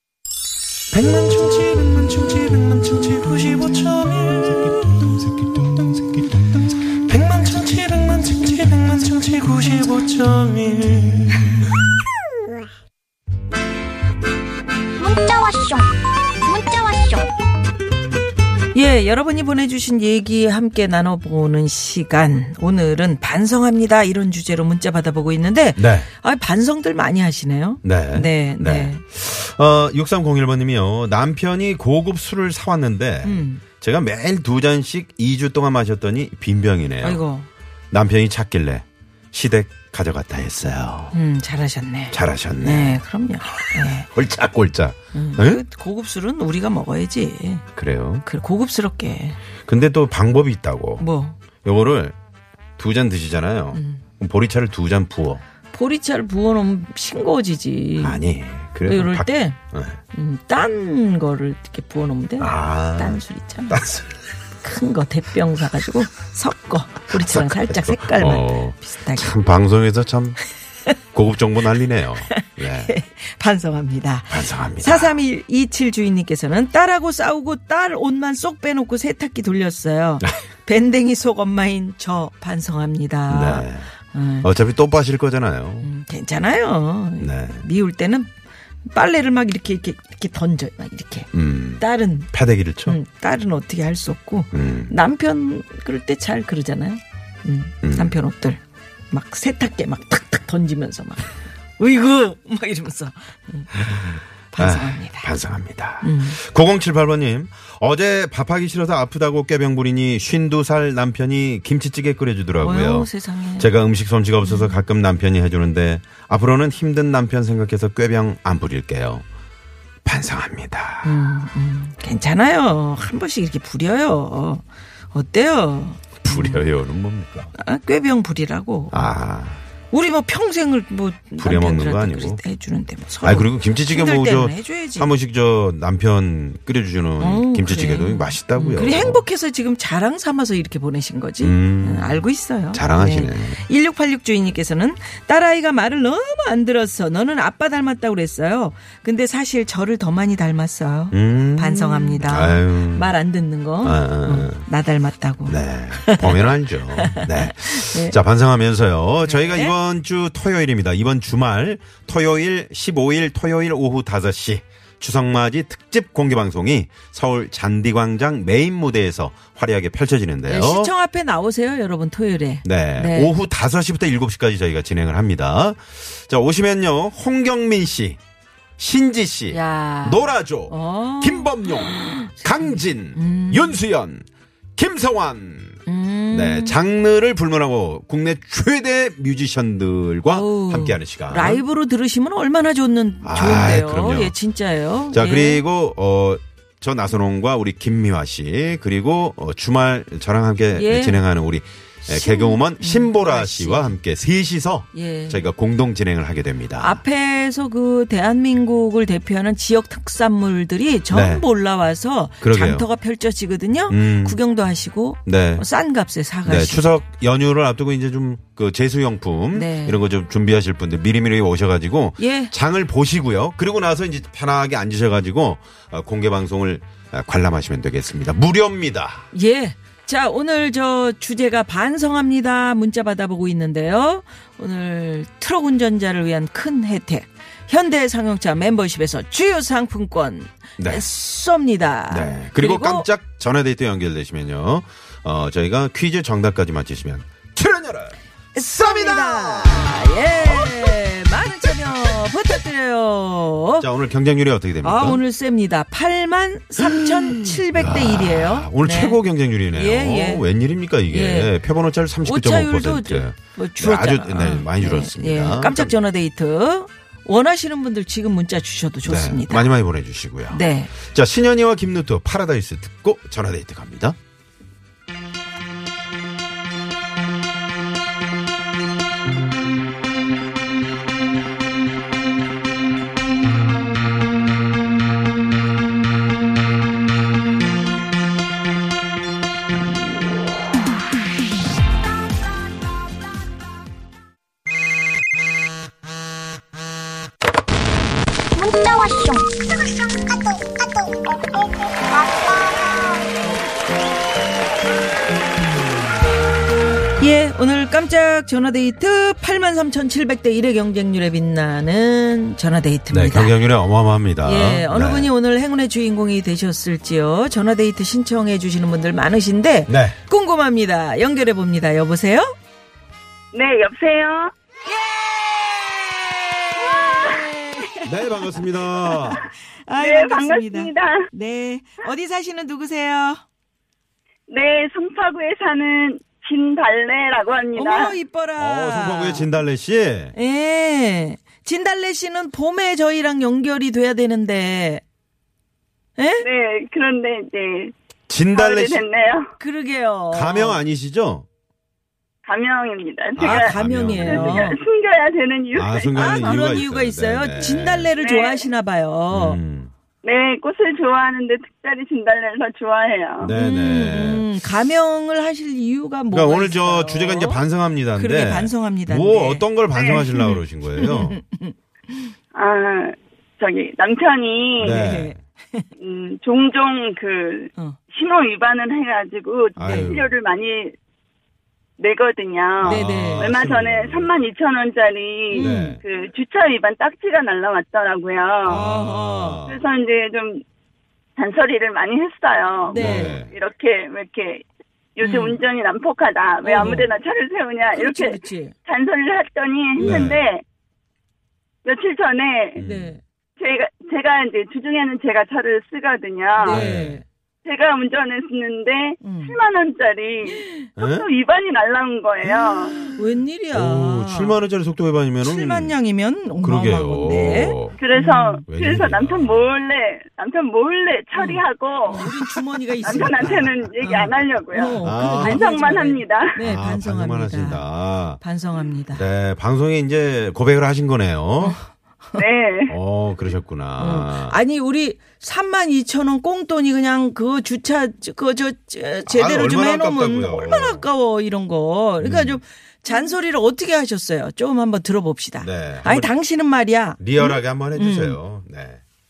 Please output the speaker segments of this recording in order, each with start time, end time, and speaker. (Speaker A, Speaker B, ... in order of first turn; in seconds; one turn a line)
Speaker A: 0.9-11.4
Speaker B: 15.0-17.3
Speaker C: 18.7-29.0
Speaker D: 25.8-26.1
Speaker D: 27.8-37.2
Speaker C: 33.2-33.6
Speaker C: 37.0-37.5
Speaker D: 37.9-41.1
Speaker C: 41.1-44.1
Speaker D: 42.1-43.0
Speaker D: 43.6-45.6
Speaker C: 45.1-47.7
Speaker D: 47.8-48.3
Speaker C: 48.2-49.4
Speaker D: 49.7-51.0
Speaker C: 51.0-51.4
Speaker D: 51.6-52.1
Speaker D: 52.8-55.4
Speaker C: 53.7-54.0
Speaker C: 55.7-58.2
Speaker D: 58.0-60.0
Speaker C: 58.9-59.6
Speaker C: 60.1-63.8
Speaker D: 62.4-64.1
Speaker C: 64.6-69.3
Speaker D: 67.1-70.4
Speaker D: 71.1-72.9
Speaker C: 72.2-84.5
Speaker D: 74.3-75.2
Speaker D: 83.3-83.9
Speaker D: 84.4-85.9
Speaker C: 85.8-88.3
Speaker D: 87.2-87.7
Speaker C: 88.9-92.3
Speaker D: 91.3-93.0
Speaker C: 92.9-105.4
Speaker D: 94.5-94.9
Speaker D: 97.8-98.2
Speaker D: 103.8-119.2
Speaker C: 106.0-106.4
Speaker C: 112.6-113.7
Speaker C: 114.4-114.8
Speaker D: 120.0-121.2
Speaker C: 121.0-126.6
Speaker D: 126.2-127.5
Speaker C: 127.5-129.1
Speaker D: 128.9-129.6
Speaker C: 129.9-135.1
Speaker D: 131.4-132.4
Speaker D: 133.2-139.2
Speaker C: 137.2-158.2
Speaker D: 141.4-143.6
Speaker D: 151.1-153.1
Speaker D: 153.8-154.7
Speaker D: 155.5-170.9
Speaker C: 159.2-159.8
Speaker C: 170.5-173.3
Speaker D: 172.6-178.2
Speaker D: 178.8-191.6
Speaker C: 179.5-183.8
Speaker C: 185.9-186.8
Speaker C: 190.3-195.6
Speaker D: 193.2-194.3
Speaker D: 195.1-207.0
Speaker C: 200.7-201.2
Speaker C: 202.1-204.0
Speaker C: 204.9-205.5
Speaker C: 206.8-217.0
Speaker D: 211.1-211.4
Speaker D: 212.4-212.9
Speaker D: 213.9-214.4
Speaker D: 215.3-215.7
Speaker D: 216.4-229.3
Speaker C: 219.5-220.0
Speaker C: 222.2-222.5
Speaker C: 229.3-243.1
Speaker D: 240.8-241.0
Speaker D: 242.1-251.0
Speaker C: 248.5-253.9
Speaker D: 251.7-252.0
Speaker D: 253.8-255.2
Speaker C: 254.8-259.2
Speaker D: 256.8-266.0
Speaker C: 259.7-260.4
Speaker C: 261.1-261.5
Speaker C: 262.2-269.7
Speaker D: 269.1-274.2
Speaker C: 270.5-270.9
Speaker B: 298.5-301.3
Speaker B: 302.1-303.2
Speaker C: 307.2-313.6
Speaker D: 313.1-315.3
Speaker C: 314.4-322.5
Speaker D: 319.9-320.2
Speaker E: 323.5-324.5
Speaker C: 324.9-333.4
Speaker E: 326.9-327.5
Speaker D: 328.1-329.4
Speaker E: 330.0-331.3
Speaker E: 334.5-338.2
Speaker C: 337.8-339.5
Speaker D: 338.6-340.3
Speaker C: 340.3-345.0
Speaker C: 346.2-346.5
Speaker E: 346.4-347.9
Speaker D: 348.3-349.0
Speaker E: 348.5-349.5
Speaker C: 349.6-350.8
Speaker D: 350.3-351.5
Speaker E: 352.5-356.8
Speaker D: 353.4-354.8
Speaker C: 353.4-354.8
Speaker D: 355.7-358.1
Speaker C: 356.1-359.6
Speaker E: 357.6-358.7
Speaker D: 359.3-359.9
Speaker E: 360.2-363.5
Speaker D: 363.4-364.5
Speaker C: 363.5-367.6
Speaker D: 366.3-371.4
Speaker C: 368.1-372.3
Speaker E: 369.9-370.3
Speaker E: 372.5-375.0
Speaker D: 374.8-375.4
Speaker C: 374.8-375.9
Speaker E: 376.0-380.9
Speaker D: 379.8-380.3
Speaker C: 379.8-380.2
Speaker E: 382.0-388.8
Speaker D: 382.8-384.3
Speaker C: 382.8-383.5
Speaker C: 385.5-386.0
Speaker D: 385.5-386.0
Speaker D: 388.6-389.8
Speaker C: 388.7-389.6
Speaker E: 389.7-390.6
Speaker E: 391.4-394.6
Speaker C: 392.8-393.4
Speaker D: 392.9-393.5
Speaker E: 395.2-400.6
Speaker C: 395.2-395.6
Speaker C: 396.6-397.1
Speaker C: 397.9-398.8
Speaker C: 400.0-400.3
Speaker D: 400.0-400.4
Speaker E: 401.9-402.8
Speaker D: 402.8-403.2
Speaker C: 402.8-403.2
Speaker E: 403.6-406.8
Speaker C: 406.6-407.2
Speaker D: 406.7-407.2
Speaker E: 407.6-412.9
Speaker C: 409.2-409.6
Speaker C: 410.5-410.9
Speaker D: 411.0-411.3
Speaker C: 413.0-414.6
Speaker D: 413.7-416.0
Speaker C: 415.4-418.6
Speaker D: 416.6-418.0
Speaker E: 418.0-422.4
Speaker D: 418.7-419.7
Speaker C: 421.4-429.2
Speaker E: 423.0-426.5
Speaker D: 423.0-423.9
Speaker D: 425.0-425.7
Speaker D: 426.6-428.4
Speaker D: 429.1-431.8
Speaker E: 432.4-432.9
Speaker D: 432.9-434.6
Speaker C: 434.0-448.4
Speaker D: 439.3-441.1
Speaker D: 442.2-442.6
Speaker D: 445.6-446.3
Speaker D: 447.2-449.0